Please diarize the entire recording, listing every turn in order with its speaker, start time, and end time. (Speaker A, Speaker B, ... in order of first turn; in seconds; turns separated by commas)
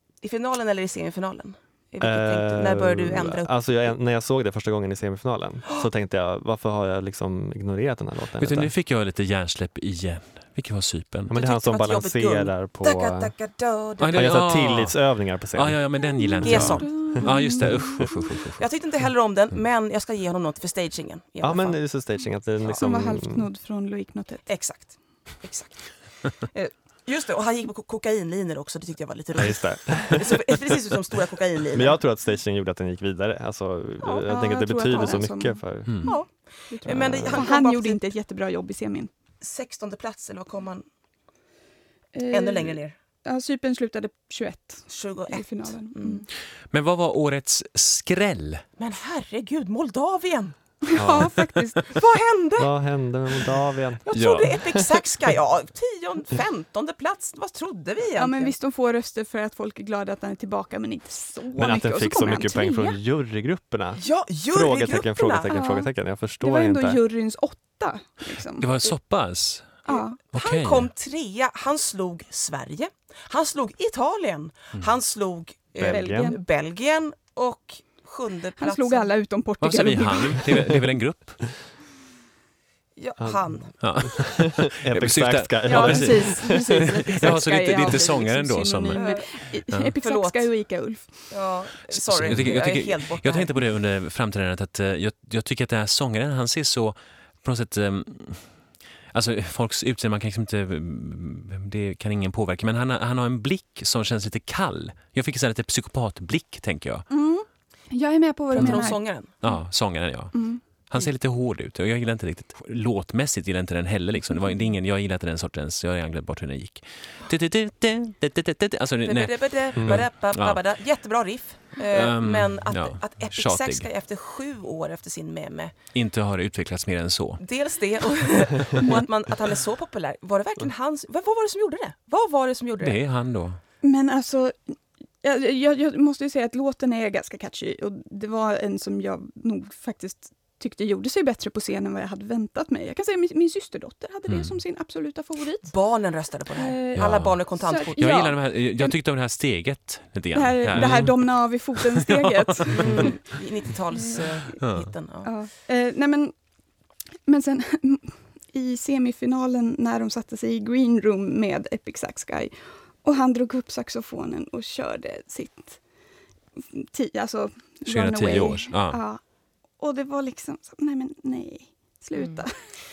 Speaker A: 0.2-3.9, Speaker B: 2.0-8.7, Speaker C: 8.4-11.3, Speaker B: 11.3-13.3, Speaker A: 11.3-14.4, Speaker C: 14.0-15.0, Speaker B: 14.1-15.8, Speaker C: 15.5-18.6, Speaker D: 16.0-18.3, Speaker A: 16.4-17.0, Speaker B: 16.4-18.1, Speaker A: 18.6-21.8, Speaker B: 21.4-23.5, Speaker D: 22.7-24.5, Speaker A: 24.5-32.0, Speaker B: 29.4-31.0, Speaker B: 31.7-36.0, Speaker A: 34.0-34.3, Speaker D: 34.2-39.1, Speaker C: 35.9-36.1, Speaker A: 36.0-38.1, Speaker B: 36.9-37.5, Speaker A: 39.4-40.9, Speaker D: 42.1-46.3, Speaker A: 42.3-43.0, Speaker A: 44.9-46.2, Speaker C: 46.7-48.6, Speaker A: 48.8-50.5, Speaker D: 50.9-52.0, Speaker B: 50.9-51.3, Speaker A: 51.8-52.7, Speaker B: 52.6-54.1, Speaker A: 54.0-58.5, Speaker C: 54.1-54.8, Speaker D: 58.2-63.0, Speaker B: 61.5-67.0, Speaker A: 64.0-65.5, Speaker D: 65.5-65.9, Speaker D: 66.4-68.7, Speaker C: 68.6-69.8, Speaker D: 69.9-70.2, Speaker A: 69.9-79.1, Speaker C: 70.3-70.9, Speaker B: 75.8-76.4, Speaker D: 75.9-76.4, Speaker D: 78.6-80.7, Speaker C: 79.6-81.4, Speaker A: 83.0-83.7, Speaker B: 83.2-88.0, Speaker C: 83.8-89.0, Speaker D: 85.7-91.3, Speaker A: 88.9-89.3, Speaker C: 89.7-89.9, Speaker A: 90.0-90.5, Speaker A: 91.3-93.5, Speaker C: 91.9-98.5, Speaker C: 99.1-107.1, Speaker D: 107.1-109.0, Speaker A: 108.5-109.3, Speaker C: 108.6-108.8, Speaker C: 109.4-120.6, Speaker D: 110.3-110.6, Speaker A: 119.0-125.7, Speaker B: 119.8-120.0, Speaker C: 121.9-123.9, Speaker C: 125.9-127.4, Speaker A: 127.4-133.0, Speaker C: 132.8-133.6, Speaker D: 133.8-145.7, Speaker C: 144.3-144.6, Speaker A: 145.7-148.1, Speaker D: 146.6-148.9, Speaker C: 146.9-147.4, Speaker C: 148.0-153.2, Speaker D: 150.3-153.2, Speaker B: 150.7-151.1, Speaker A: 152.8-155.3, Speaker D: 153.9-154.6, Speaker C: 154.6-154.9, Speaker D: 155.2-156.3, Speaker D: 157.3-165.8, Speaker D: 166.6-169.2, Speaker C: 167.8-169.0, Speaker D: 169.8-172.5, Speaker A: 172.2-172.4